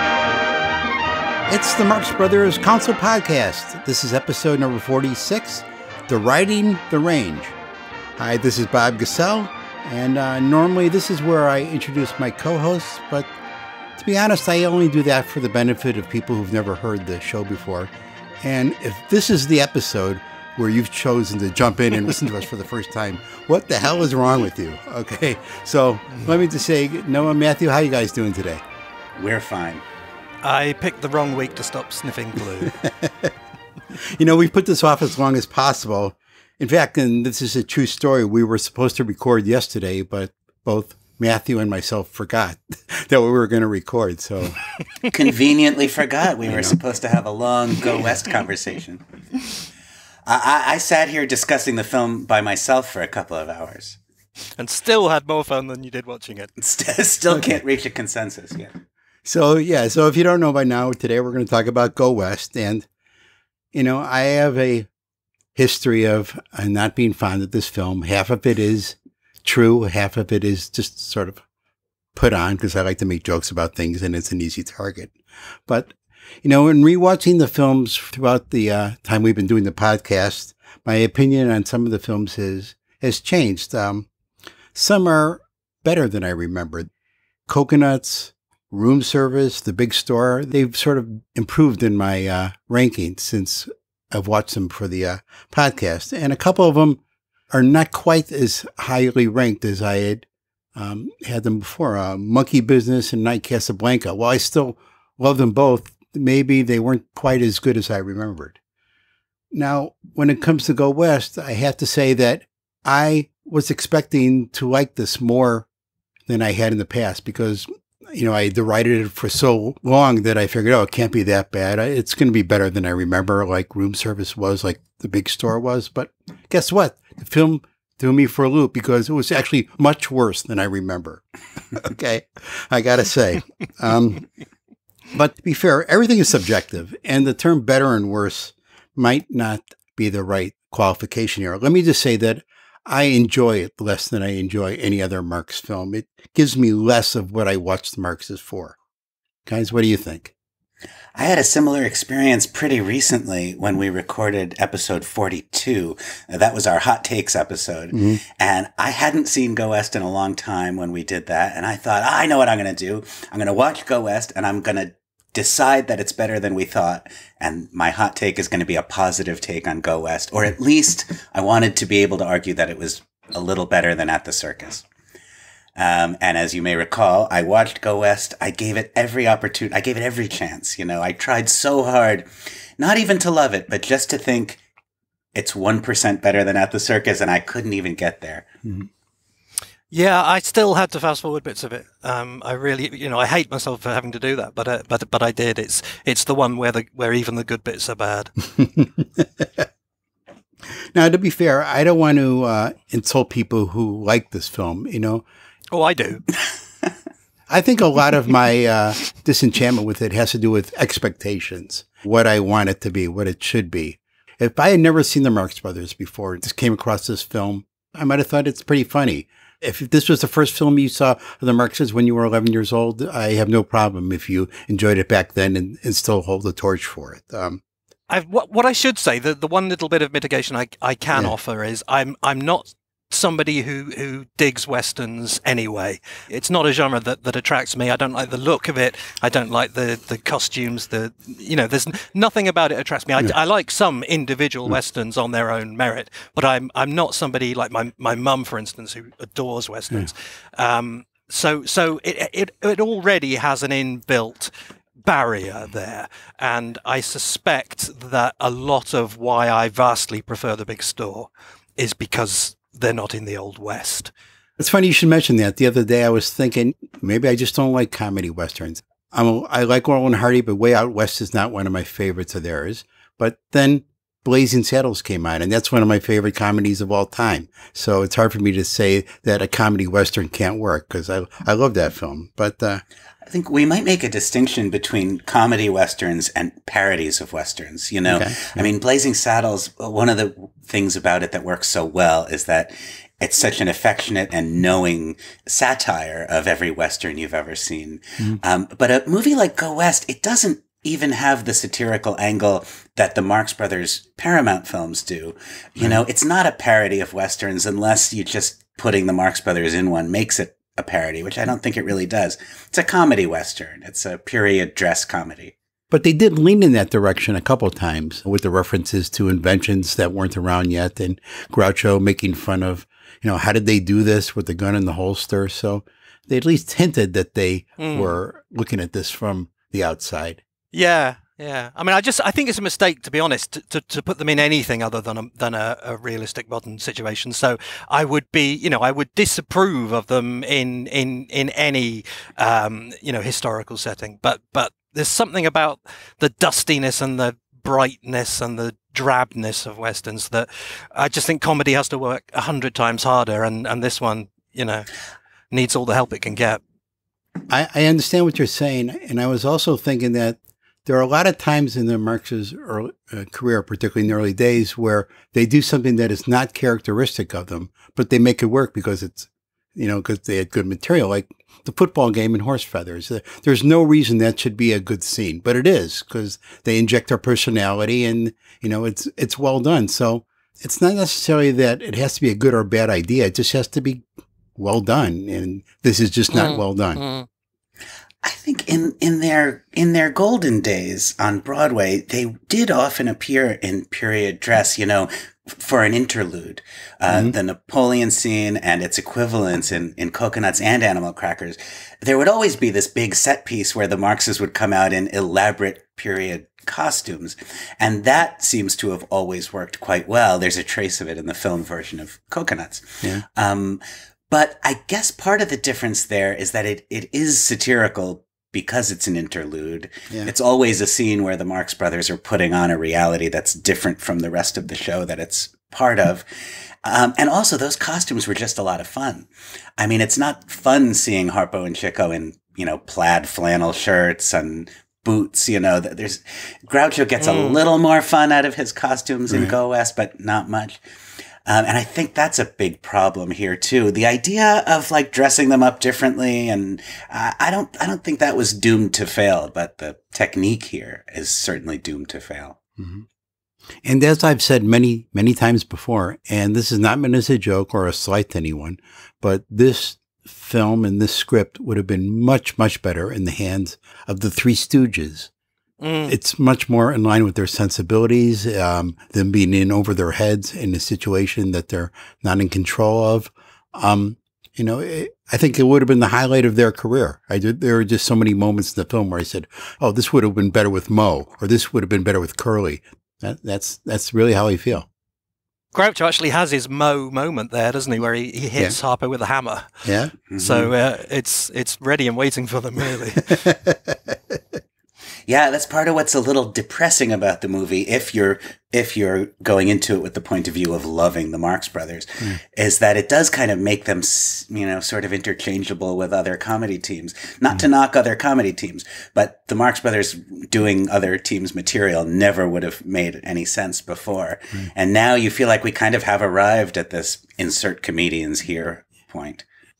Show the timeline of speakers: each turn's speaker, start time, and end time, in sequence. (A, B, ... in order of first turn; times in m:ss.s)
0:01.5-0:07.5 A
0:08.2-0:13.3 A
0:14.0-0:28.6 A
0:29.2-0:29.8 B
0:30.4-0:32.8 C
0:32.8-0:33.3 A
0:34.1-0:44.6 A
0:45.1-0:49.0 B
0:46.5-0:46.8 A
0:50.2-0:54.0 B
0:54.6-0:56.5 C
0:56.6-0:58.7 B
0:59.2-1:02.9 A
1:03.7-1:04.9 A
1:05.6-1:11.4 A
1:12.1-1:15.1 A
1:15.7-1:24.1 A
1:24.7-1:26.9 A
1:27.5-1:48.6 A
1:49.5-1:55.7 A
1:56.3-2:14.3 A
2:15.1-2:28.8 A
2:29.5-2:30.3 A
2:31.2-2:54.8 B
2:37.9-2:38.2 A
2:55.8-3:04.6 B
3:05.3-3:08.5 B
3:09.9-3:18.3 C
3:18.6-3:19.6 A
3:20.9-3:25.2 A
3:25.7-3:26.2 C
3:27.5-3:47.6 A
3:48.1-4:14.5 C
4:15.0-4:24.1 C
4:24.6-4:42.8 A
4:43.2-5:15.6 B
4:48.1-4:48.6 A
5:15.9-5:30.4 A
5:27.8-5:28.2 C
5:30.7-5:54.9 C
5:55.5-5:56.6 C
5:57.5-6:24.0 A
6:24.6-6:27.0 A
6:26.3-6:27.2 C
6:28.2-7:06.2 B
6:37.1-6:37.3 A
7:06.8-7:20.8 B
7:17.2-7:17.6 C
7:19.3-7:19.6 A
7:21.5-7:32.6 B
7:32.8-7:33.0 A
7:33.8-7:45.3 A
7:45.8-7:46.1 C
7:46.1-8:04.9 A
8:05.7-8:09.8 C
8:09.8-8:10.1 A
8:10.3-8:10.7 B
8:10.4-8:13.4 C
8:13.4-8:14.4 A
8:15.3-8:39.4 B